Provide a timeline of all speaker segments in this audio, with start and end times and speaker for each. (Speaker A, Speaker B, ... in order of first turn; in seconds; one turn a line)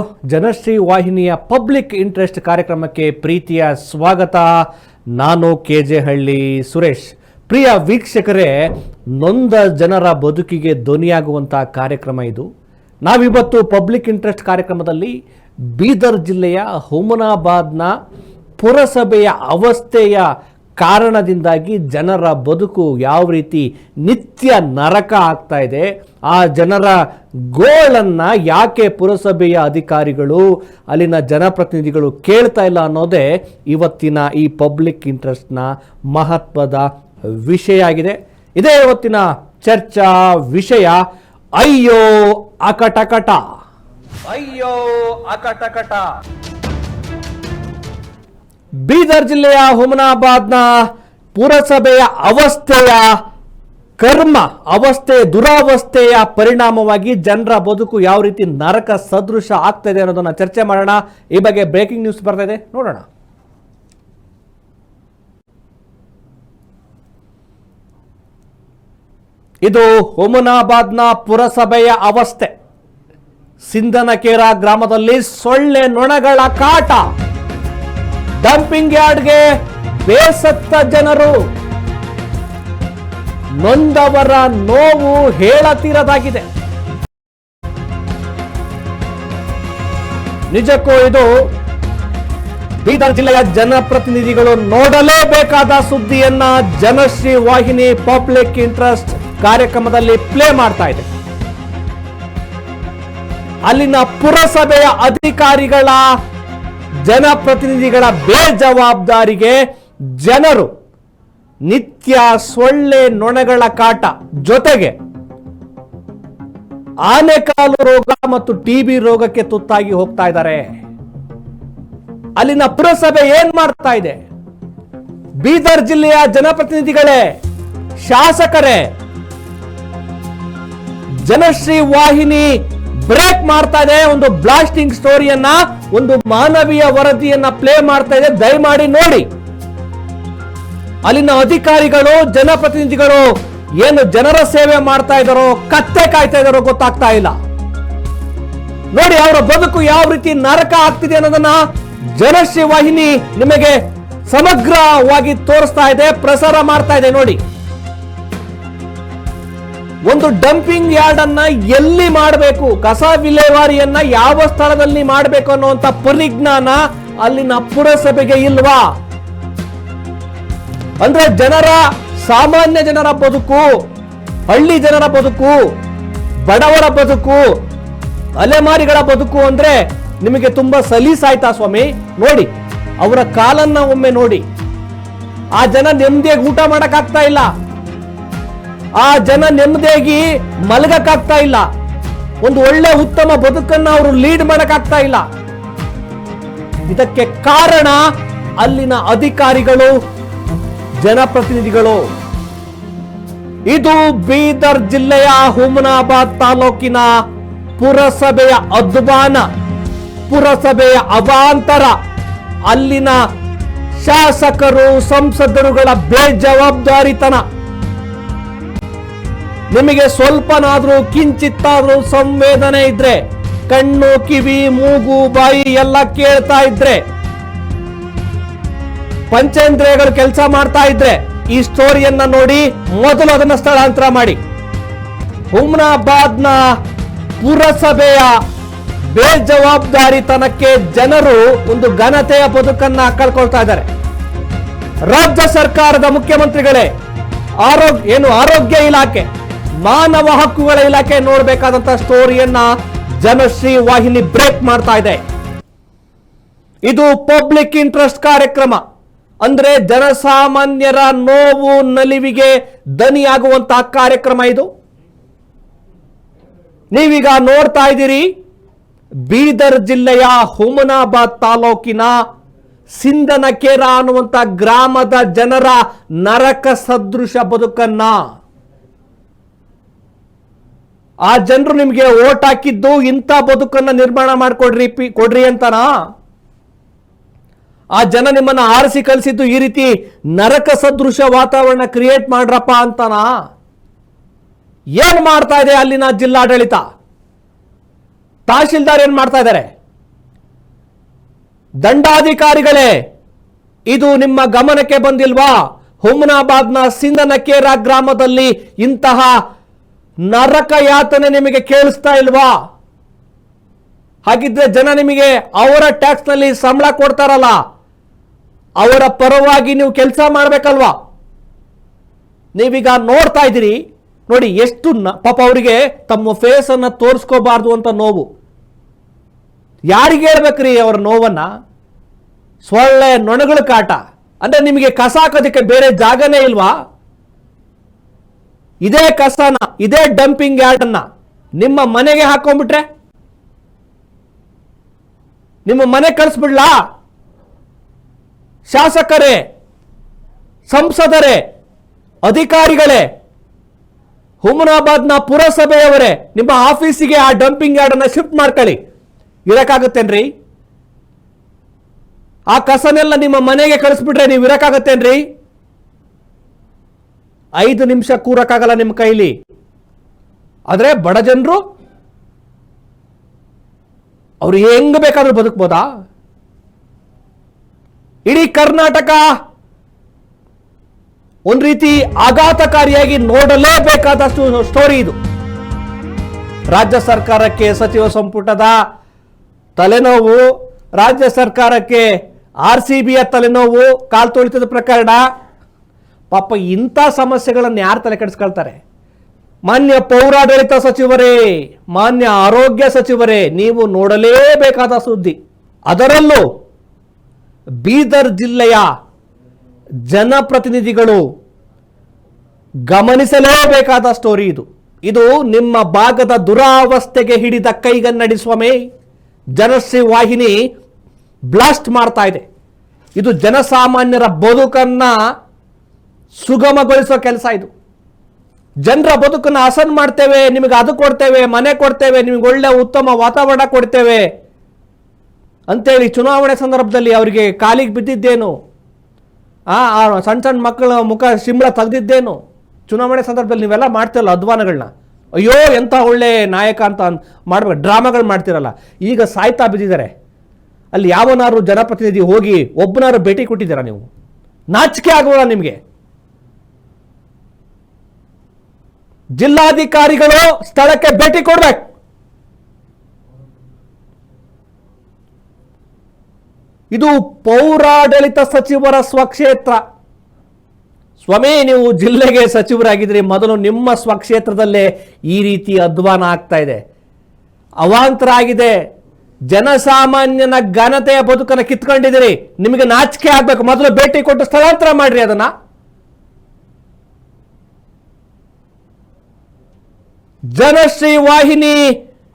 Speaker A: 0.3-4.5
Speaker A: 5.2-12.5
Speaker A: 13.1-15.1
Speaker A: 15.8-17.9
Speaker A: 18.6-20.3
Speaker A: 20.8-27.0
Speaker A: 27.5-36.9
Speaker A: 37.4-41.0
Speaker A: 41.6-43.4
Speaker A: 44.3-46.1
Speaker A: 48.9-50.7
Speaker A: 51.4-53.1
Speaker A: 54.0-63.0
Speaker A: 69.6-72.5
Speaker A: 73.6-77.0
Speaker A: 78.4-79.4
Speaker A: 80.0-81.4
Speaker A: 83.6-86.5
Speaker A: 90.5-91.3
Speaker A: 92.8-101.1
Speaker A: 103.7-106.0
Speaker A: 107.0-109.6
Speaker A: 110.2-110.7
Speaker A: 111.7-115.0
Speaker A: 117.1-120.8
Speaker A: 122.4-124.2
Speaker A: 125.4-127.3
Speaker A: 128.0-128.9
Speaker A: 131.2-139.3
Speaker A: 141.1-147.3
Speaker A: 148.9-151.6
Speaker A: 152.2-157.4
Speaker A: 160.1-168.8
Speaker A: 171.0-173.7
Speaker A: 174.5-175.6
Speaker A: 176.5-177.4
Speaker A: 178.4-182.5
Speaker A: 183.0-184.4
Speaker A: 185.6-187.5
Speaker A: 189.0-191.7
Speaker A: 192.4-195.2
Speaker A: 196.9-198.0
Speaker A: 198.6-199.9
Speaker A: 201.0-202.0
Speaker A: 203.7-207.1
Speaker A: 207.8-209.4
Speaker A: 210.3-211.9
Speaker A: 212.7-213.2
Speaker A: 214.0-217.4
Speaker A: 219.7-227.0
Speaker A: 229.3-234.4
Speaker A: 235.5-236.6
Speaker A: 237.4-238.3
Speaker A: 239.1-243.9
Speaker A: 245.1-246.9
Speaker A: 247.6-249.3
Speaker A: 249.8-255.2
Speaker A: 256.9-258.8
Speaker A: 259.4-264.7
Speaker A: 266.9-268.3
Speaker A: 269.3-272.1
Speaker A: 272.9-278.2
Speaker A: 281.3-285.9
Speaker A: 288.0-293.3
Speaker A: 295.0-296.8
Speaker A: 298.5-299.7
Speaker A: 301.8-303.0
Speaker A: 303.9-309.4
Speaker A: 310.3-312.5
Speaker A: 314.2-317.6
Speaker A: 318.8-320.9
Speaker A: 322.6-328.3
Speaker A: 329.9-331.5
Speaker A: 332.6-336.7
Speaker A: 338.8-341.0
Speaker A: 341.6-342.9
Speaker A: 345.7-346.8
Speaker A: 348.7-349.4
Speaker A: 350.7-351.4
Speaker A: 352.2-353.1
Speaker A: 354.4-358.8
Speaker A: 359.5-360.3
Speaker A: 362.5-365.2
Speaker A: 367.6-369.3
Speaker A: 370.7-371.6
Speaker A: 374.4-375.9
Speaker A: 378.3-379.2
Speaker A: 381.5-385.2
Speaker A: 386.7-388.8
Speaker A: 389.8-390.5
Speaker A: 391.0-392.1
Speaker A: 392.6-395.2
Speaker A: 396.3-398.8
Speaker A: 399.7-405.4
Speaker A: 405.9-406.4
Speaker A: 407.8-408.9
Speaker A: 410.1-411.2
Speaker A: 412.9-418.8
Speaker A: 419.6-420.6
Speaker A: 421.5-422.4
Speaker A: 423.2-425.1
Speaker A: 426.4-427.7
Speaker A: 428.9-434.3
Speaker A: 435.7-438.5
Speaker A: 439.7-450.1
Speaker A: 450.9-454.1
Speaker A: 454.7-455.8
Speaker A: 459.4-461.9
Speaker A: 466.9-469.8
Speaker A: 471.2-476.8
Speaker A: 477.8-478.8
Speaker A: 479.5-485.5
Speaker A: 490.5-491.9